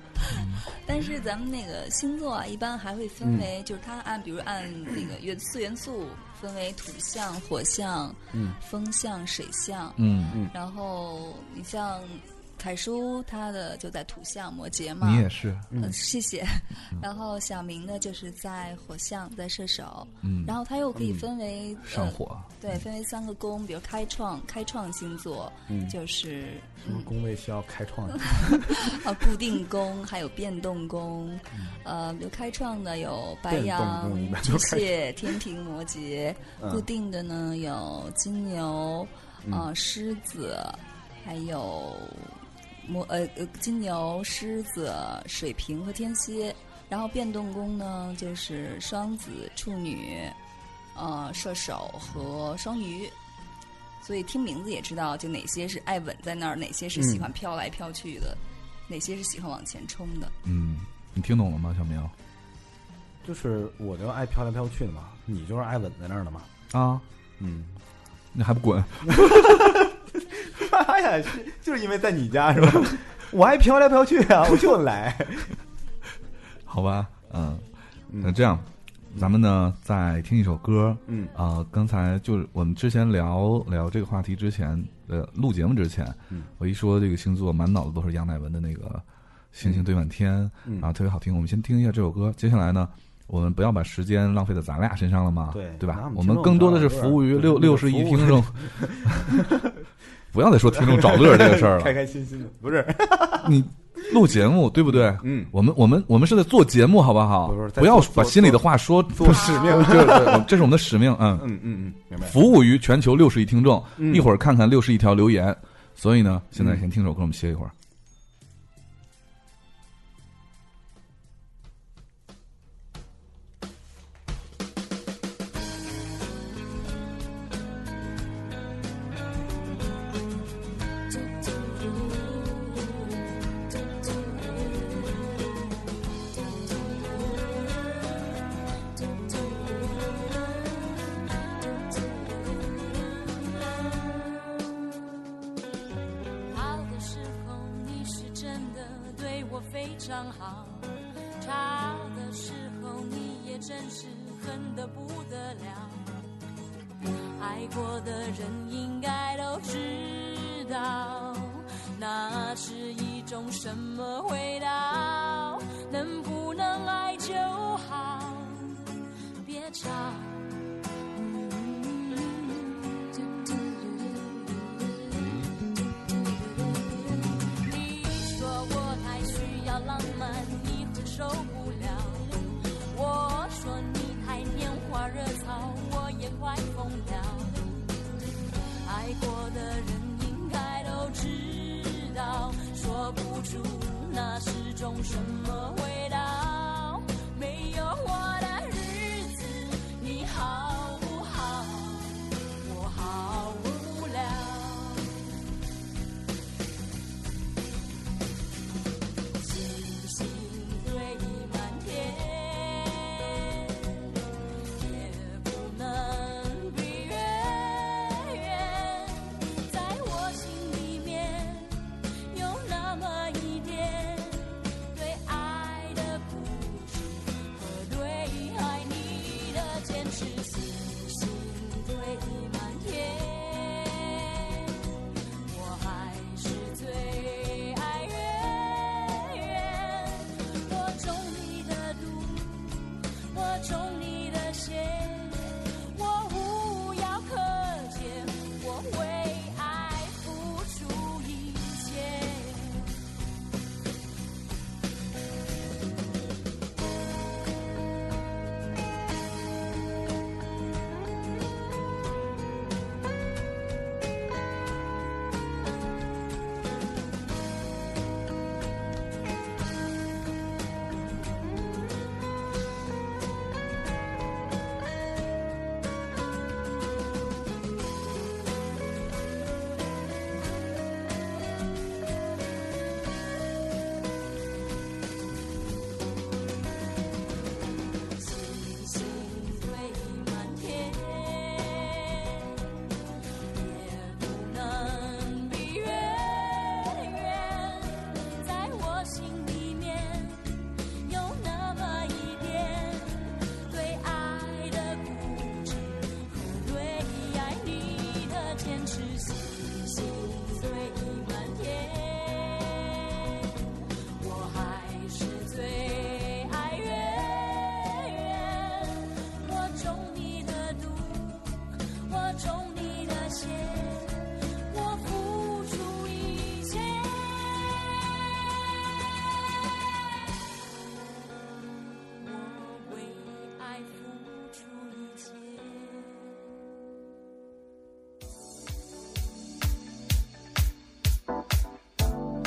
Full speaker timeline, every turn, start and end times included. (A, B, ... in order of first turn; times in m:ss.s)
0:00.3-0:00.6 A
0:00.3-0:27.1 B
0:03.2-0:03.5 C
0:08.3-0:08.6 C
0:10.0-0:10.4 A
0:15.0-0:15.7 A
0:15.7-0:16.0 C
0:20.2-0:20.5 A
0:21.0-0:21.2 C
0:21.8-0:22.5 A
0:25.7-0:26.0 C
0:26.8-0:29.0 C
0:28.4-0:50.4 B
0:33.5-0:35.1 C
0:36.6-0:36.9 C
0:50.9-0:53.2 B
0:54.0-1:00.3 B
0:56.9-0:57.3 C
1:00.4-1:02.1 A
1:03.2-1:06.5 C
1:06.7-1:07.0 A
1:07.4-1:07.8 C
1:08.3-1:09.8 A
1:09.1-1:15.6 C
1:16.7-1:17.6 A
1:18.1-1:18.4 C
1:18.2-1:39.4 A
1:21.0-1:21.3 C
1:29.6-1:29.9 C
1:35.5-1:39.8 C
1:40.3-1:41.9 A
1:40.7-1:44.2 C
1:43.4-1:51.5 A
1:44.9-1:45.5 C
1:47.4-1:50.6 C
1:51.4-1:52.4 C
1:52.2-1:57.7 A
1:54.0-1:54.3 C
1:56.6-1:56.8 C
2:11.1-2:15.5 D
2:16.3-2:17.9 D
2:18.9-2:24.9 D
2:26.4-2:36.1 D
2:37.4-3:07.8 D
3:08.8-3:25.4 D
3:29.4-3:34.2 D
3:34.7-4:13.0 D
4:47.9-4:52.9 D
4:53.5-5:28.5 D
5:32.0-5:36.4 D